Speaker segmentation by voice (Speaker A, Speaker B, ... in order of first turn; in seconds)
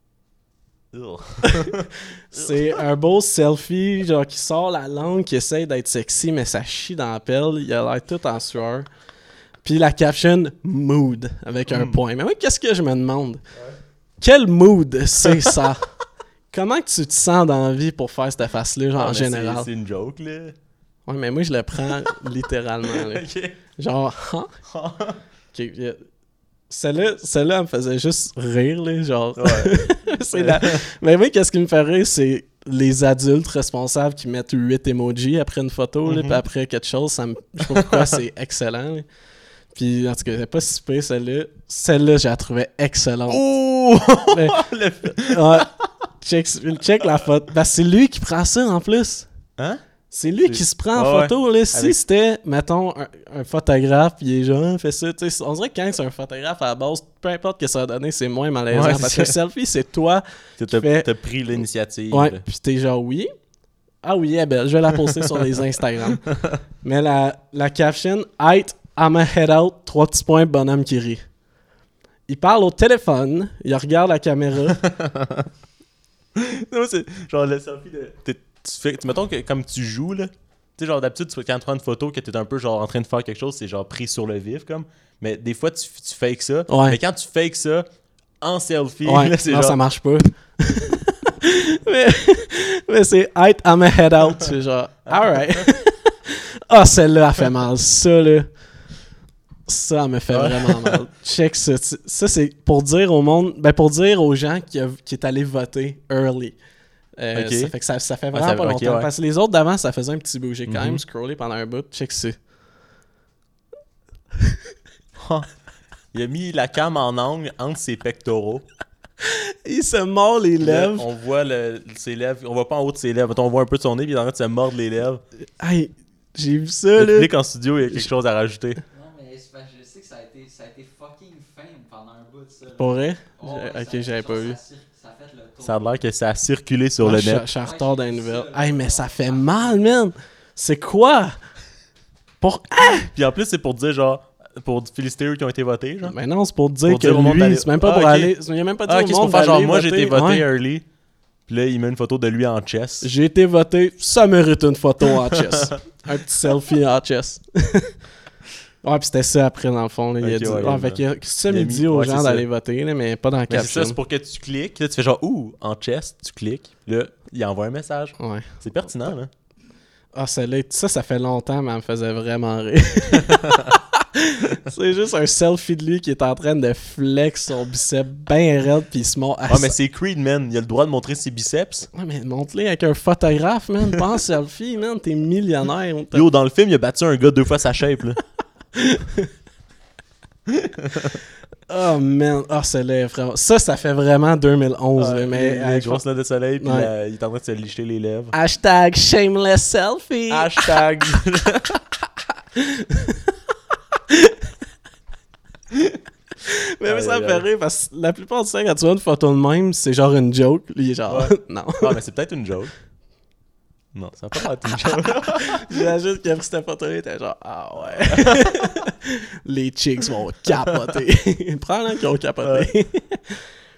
Speaker A: 0.9-1.8, 11.7-12.0, 19.0-20.6, 22.9-23.6, 24.7-25.2, 29.4-30.8, 36.1-36.4, 37.6-37.9, 43.3-45.7, 50.5-52.0, 58.7-59.3, 60.6-62.4, 74.8-75.4, 76.4-87.9, 88.4-89.8, 95.1-95.7, 100.3-101.0, 107.3-107.7, 108.3-109.1, 110.7-111.0, 115.2-115.5, 116.1-118.7, 120.6-125.2, 127.0-128.8, 135.6-137.5, 143.1-146.2, 146.9-148.3, 148.9-150.8, 151.5-153.1, 160.2-162.4, 163.5-169.3, 179.5-181.9, 186.1-188.2, 195.0-198.3, 200.3-201.8, 206.9-207.4, 211.1-212.7, 213.9-215.6, 222.4-222.7
Speaker B: 2.3-8.9, 9.6-13.4, 14.2-15.9, 16.5-19.7, 21.1-24.5, 25.5-26.0, 26.7-39.1, 39.7-43.5, 44.3-45.7, 46.2-49.3, 50.1-61.1, 62.1-63.3, 64.0-71.2, 72.3-74.8, 86.7-87.0, 89.0-98.8, 99.7-106.6, 107.2-112.4, 119.7-121.1, 125.6-127.3, 132.8-134.6, 137.0-141.4, 142.4-143.1, 146.0-150.4, 153.0-157.9, 158.8-164.0, 168.2-168.7, 170.1-179.8, 181.9-186.3, 188.8-189.2, 191.7-196.1, 196.6-196.9, 198.3-200.8, 202.6-203.1, 206.8-212.0, 214.7-223.5
Speaker C: 128.9-136.0, 137.5-139.9